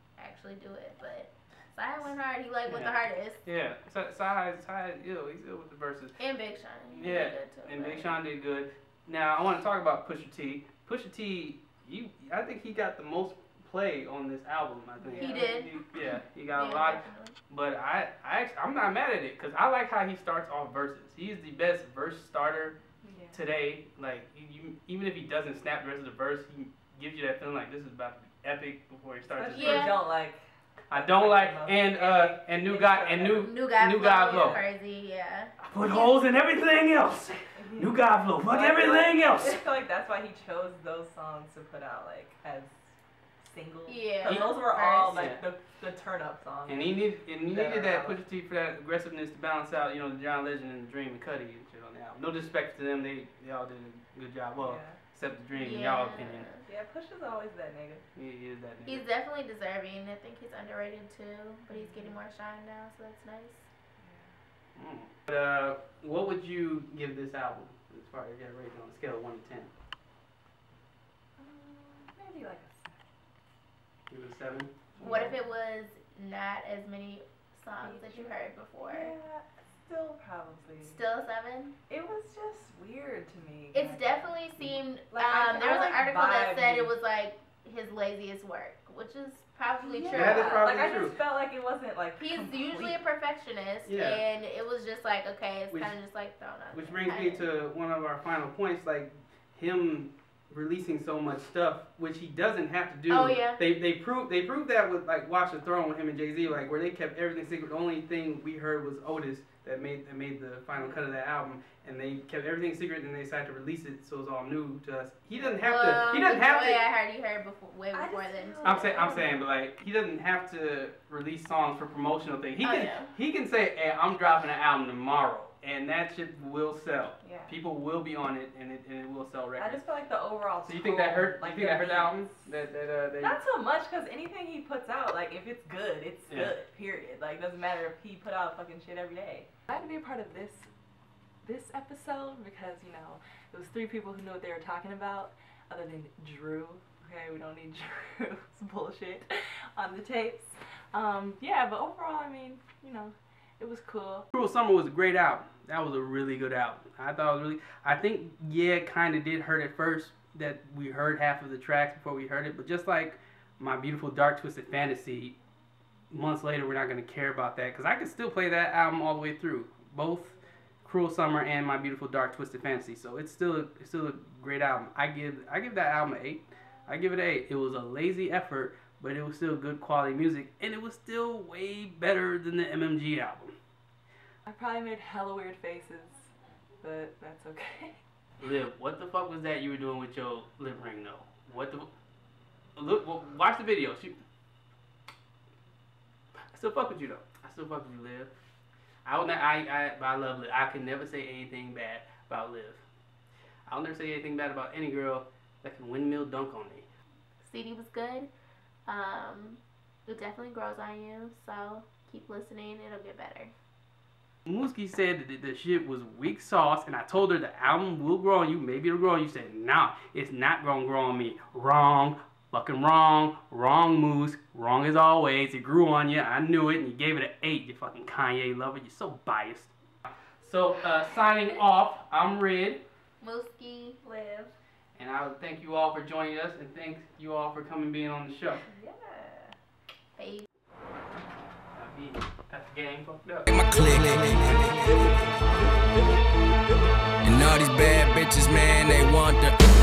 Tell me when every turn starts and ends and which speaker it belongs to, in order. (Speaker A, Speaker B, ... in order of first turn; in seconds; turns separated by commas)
Speaker A: 0.2-3.4, Speaker B: 2.7-6.2, Speaker A: 6.2-8.2, Speaker B: 6.9-22.8, Speaker C: 15.0-15.6, Speaker A: 15.2-15.8, Speaker A: 16.6-17.4, Speaker C: 23.0-23.4, Speaker B: 23.3-30.1, Speaker C: 29.3-34.7, Speaker A: 29.5-30.0, Speaker B: 30.9-34.6, Speaker A: 33.3-36.2, Speaker B: 35.6-39.6, Speaker C: 37.6-42.8, Speaker C: 43.4-48.2, Speaker A: 43.9-45.3, Speaker B: 44.2-44.5, Speaker B: 45.1-45.4, Speaker B: 46.7-56.5, Speaker C: 54.6-55.0, Speaker A: 55.6-56.6, Speaker C: 56.7-58.0, Speaker B: 58.1-59.1, Speaker A: 58.9-63.7, Speaker C: 61.7-62.2, Speaker C: 64.0-64.3, Speaker B: 64.8-69.7, Speaker C: 71.4-73.0, Speaker B: 74.1-75.3, Speaker C: 75.0-75.4, Speaker A: 75.0-79.1, Speaker C: 77.8-81.0, Speaker A: 80.8-81.8, Speaker C: 81.9-86.9, Speaker A: 83.7-90.7, Speaker C: 89.8-93.0, Speaker B: 90.1-91.2, Speaker A: 92.2-97.5, Speaker B: 93.9-94.2, Speaker B: 96.7-116.8, Speaker A: 103.1-103.6, Speaker C: 110.8-111.1, Speaker A: 115.4-119.2, Speaker C: 117.9-119.4, Speaker B: 118.6-129.8, Speaker A: 122.6-123.1, Speaker C: 127.2-127.5, Speaker C: 129.6-132.5, Speaker B: 130.7-133.4, Speaker C: 133.2-140.7, Speaker C: 141.4-154.3, Speaker B: 154.3-165.4, Speaker B: 166.1-183.5, Speaker C: 184.5-188.0, Speaker B: 188.4-191.9, Speaker B: 192.8-194.2, Speaker B: 196.5-198.3, Speaker B: 199.1-202.8, Speaker B: 203.7-206.9, Speaker A: 207.4-208.3, Speaker A: 208.9-213.5, Speaker B: 214.5-229.7, Speaker B: 230.4-232.8, Speaker A: 233.2-234.0, Speaker C: 234.0-234.6, Speaker B: 235.0-238.7, Speaker C: 238.7-239.6, Speaker A: 240.2-240.5, Speaker B: 241.7-243.5, Speaker D: 243.5-245.4, Speaker D: 247.2-249.6